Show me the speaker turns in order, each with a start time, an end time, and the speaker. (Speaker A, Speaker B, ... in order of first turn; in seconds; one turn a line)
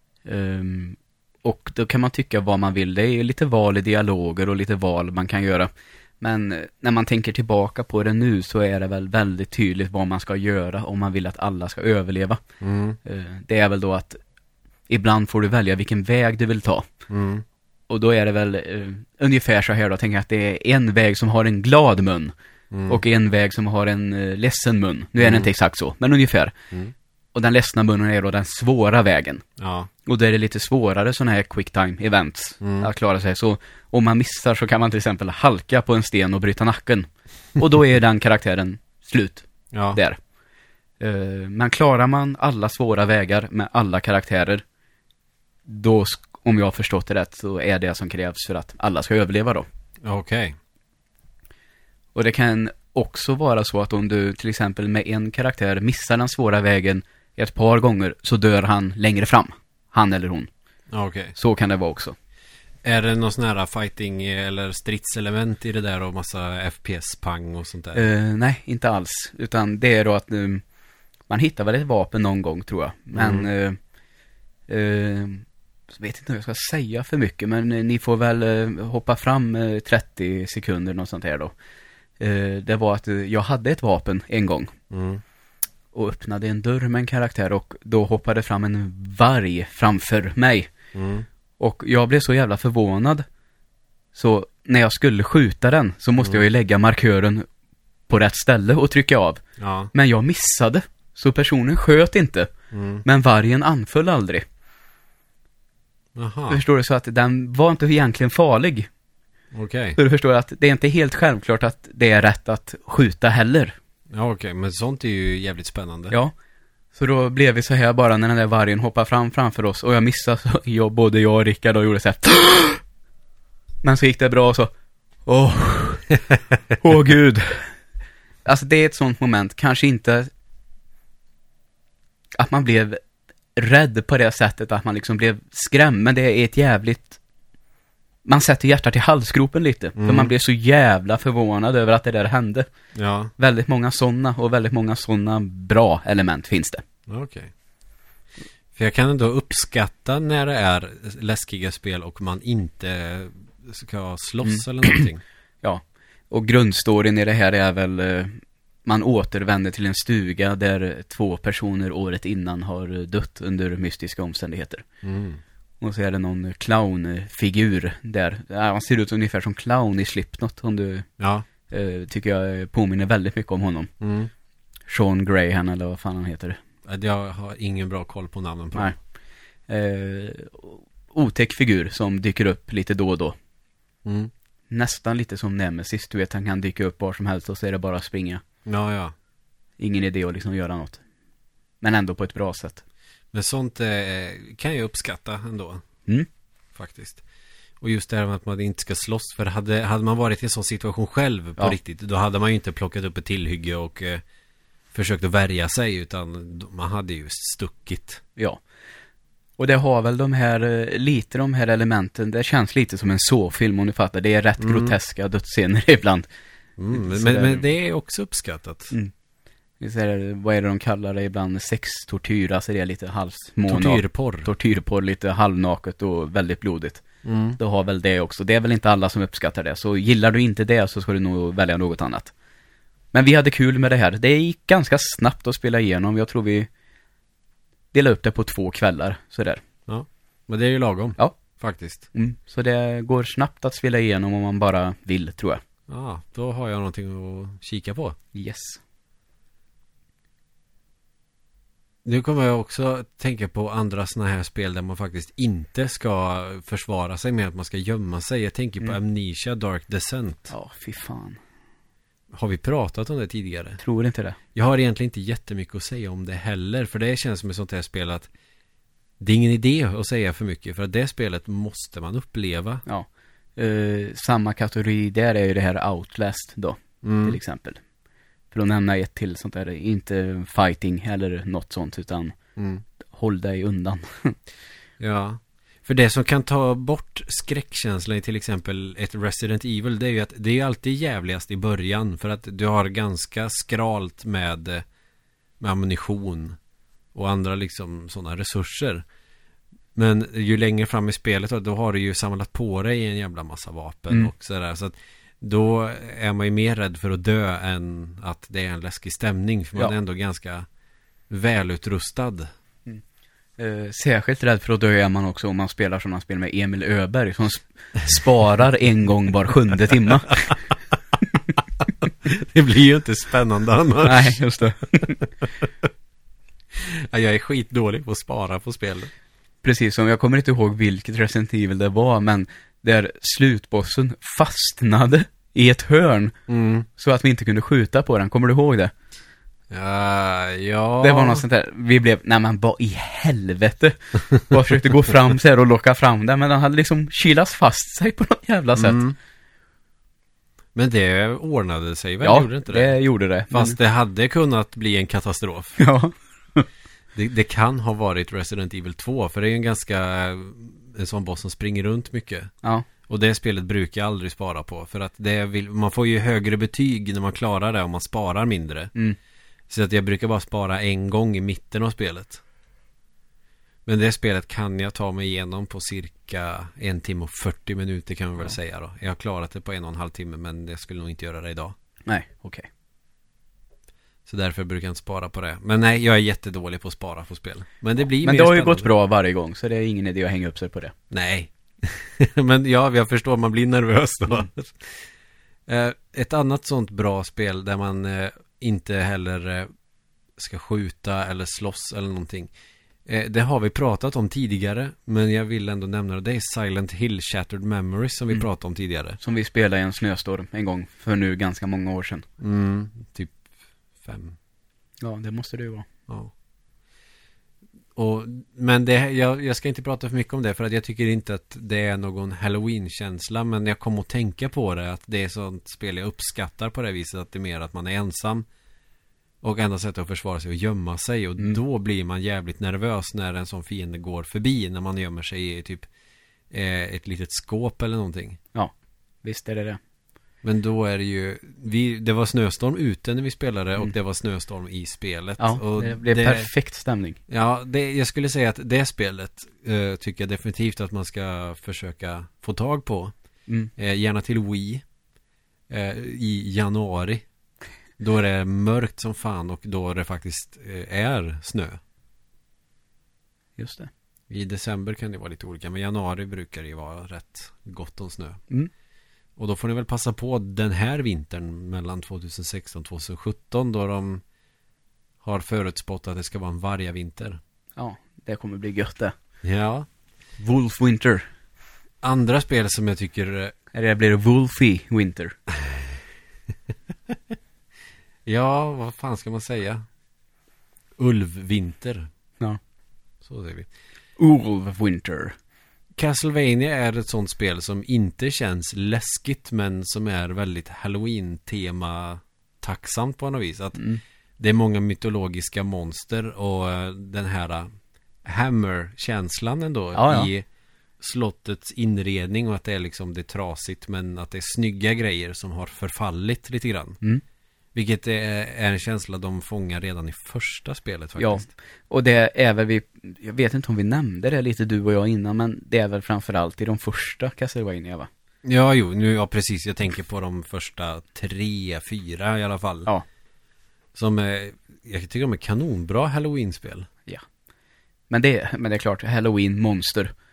Speaker A: 0.2-12.4
Speaker B: 12.6-13.0
Speaker A: 13.0-14.2
Speaker A: 14.9-16.9
Speaker B: 17.1-17.4
Speaker A: 17.9-22.3
Speaker B: 22.7-23.0
Speaker A: 22.9-26.5
Speaker B: 25.2-25.5
Speaker A: 27.3-29.4
Speaker B: 29.6-29.9
Speaker A: 30.1-40.2
Speaker B: 32.6-32.9
Speaker B: 39.7-40.0
Speaker A: 41.0-44.6
Speaker A: 45.7-49.6
Speaker B: 50.0-50.5
Speaker A: 52.1-60.5
Speaker B: 60.9-61.3
Speaker A: 61.3-62.1
Speaker B: 62.8-68.0
Speaker A: 67.9-70.6
Speaker A: 71.3-73.8
Speaker B: 73.1-73.5
Speaker A: 74.7-81.5
Speaker A: 82.2-84.7
Speaker B: 84.9-85.2
Speaker A: 85.9-90.7
Speaker B: 90.9-91.2
Speaker A: 91.6-93.2
Speaker A: 94.1-97.5
Speaker A: 98.1-99.4
Speaker B: 99.6-99.9
Speaker A: 99.9-102.5
Speaker B: 102.7-103.0
Speaker A: 103.0-104.4
Speaker B: 106.1-106.6
Speaker A: 106.5-108.9
Speaker B: 109.5-110.0
Speaker A: 110.0-113.7
Speaker B: 114.1-116.1
Speaker A: 116.9-122.8
Speaker A: 123.8-124.7
Speaker A: 125.2-126.1
Speaker A: 126.8-127.8
Speaker A: 128.4-130.3
Speaker A: 132.3-133.0
Speaker A: 133.6-137.2
Speaker A: 138.2-142.7
Speaker B: 140.0-140.3
Speaker B: 142.9-143.3
Speaker A: 143.4-146.8
Speaker B: 147.1-147.5
Speaker B: 148.7-155.2
Speaker A: 154.4-155.1
Speaker A: 155.6-164.8
Speaker B: 165.0-165.4
Speaker A: 165.8-171.1
Speaker B: 171.2-171.4
Speaker A: 171.7-173.9
Speaker B: 174.0-174.3
Speaker A: 174.9-176.6
Speaker B: 176.8-178.9
Speaker A: 179.7-183.3
Speaker B: 184.0-184.3
Speaker A: 184.7-188.4
Speaker B: 188.6-189.1
Speaker A: 189.8-191.0
Speaker A: 191.8-192.8
Speaker B: 193.3-195.8
Speaker B: 196.7-197.2
Speaker B: 197.8-204.2
Speaker B: 204.9-208.2
Speaker A: 208.4-208.6
Speaker A: 209.6-216.3
Speaker B: 214.6-214.9
Speaker B: 216.8-218.9
Speaker A: 216.9-217.6
Speaker A: 219.8-227.0
Speaker B: 223.7-224.5
Speaker B: 227.2-227.6
Speaker A: 227.6-232.3
Speaker A: 233.1-236.7
Speaker A: 237.9-239.6
Speaker B: 239.9-242.1
Speaker A: 242.1-245.6
Speaker B: 245.9-248.2
Speaker A: 248.3-248.8
Speaker B: 252.0-260.5
Speaker A: 260.5-261.4
Speaker B: 262.3-263.8
Speaker A: 263.8-264.4
Speaker B: 264.5-268.3
Speaker B: 269.2-272.8
Speaker A: 272.9-277.8
Speaker B: 277.0-277.4
Speaker A: 278.5-282.3
Speaker B: 282.6-282.8
Speaker A: 283.1-284.4
Speaker B: 285.0-294.8
Speaker B: 295.6-296.6
Speaker B: 297.1-299.0
Speaker B: 299.9-310.7
Speaker B: 311.3-312.5
Speaker A: 313.6-320.6
Speaker B: 322.2-324.4
Speaker A: 324.0-325.2
Speaker B: 325.6-325.9
Speaker B: 326.7-329.1
Speaker A: 329.6-336.3
Speaker B: 336.5-336.9
Speaker A: 336.9-338.9
Speaker B: 339.7-341.4
Speaker A: 341.0-349.0
Speaker B: 348.8-349.1
Speaker B: 350.7-352.9
Speaker A: 352.2-353.8
Speaker B: 353.5-355.8
Speaker A: 355.8-356.7
Speaker B: 357.1-362.5
Speaker B: 363.1-368.9
Speaker B: 369.7-372.4
Speaker B: 373.9-381.7
Speaker A: 382.1-382.7
Speaker B: 384.2-388.9
Speaker A: 388.2-390.9
Speaker B: 391.1-395.1
Speaker B: 395.7-399.7
Speaker B: 400.4-402.5
Speaker B: 403.1-409.2
Speaker A: 409.2-412.2
Speaker B: 412.4-413.4
Speaker B: 414.0-414.4
Speaker A: 415.0-415.9
Speaker B: 417.9-428.4
Speaker B: 429.4-435.9
Speaker B: 436.5-438.4
Speaker A: 439.2-439.8
Speaker B: 440.4-446.5
Speaker A: 445.4-447.2
Speaker B: 447.3-453.1
Speaker B: 453.8-454.8
Speaker B: 455.7-457.2
Speaker B: 458.0-461.8
Speaker A: 463.6-463.9
Speaker B: 464.3-468.4
Speaker B: 469.4-474.2
Speaker B: 475.2-477.4
Speaker A: 477.8-479.1
Speaker B: 479.4-479.9
Speaker A: 480.4-481.3
Speaker B: 482.0-483.5
Speaker A: 483.7-485.4
Speaker B: 485.6-485.9
Speaker B: 488.2-489.8
Speaker B: 491.0-492.1
Speaker B: 493.2-493.7
Speaker A: 494.2-495.3
Speaker B: 495.9-503.8
Speaker A: 503.8-504.0
Speaker B: 504.4-507.7
Speaker B: 508.2-510.4
Speaker A: 509.9-510.3
Speaker B: 511.0-517.0
Speaker B: 517.7-521.5
Speaker A: 521.2-528.1
Speaker B: 528.4-532.9
Speaker B: 533.9-536.9
Speaker A: 538.1-540.1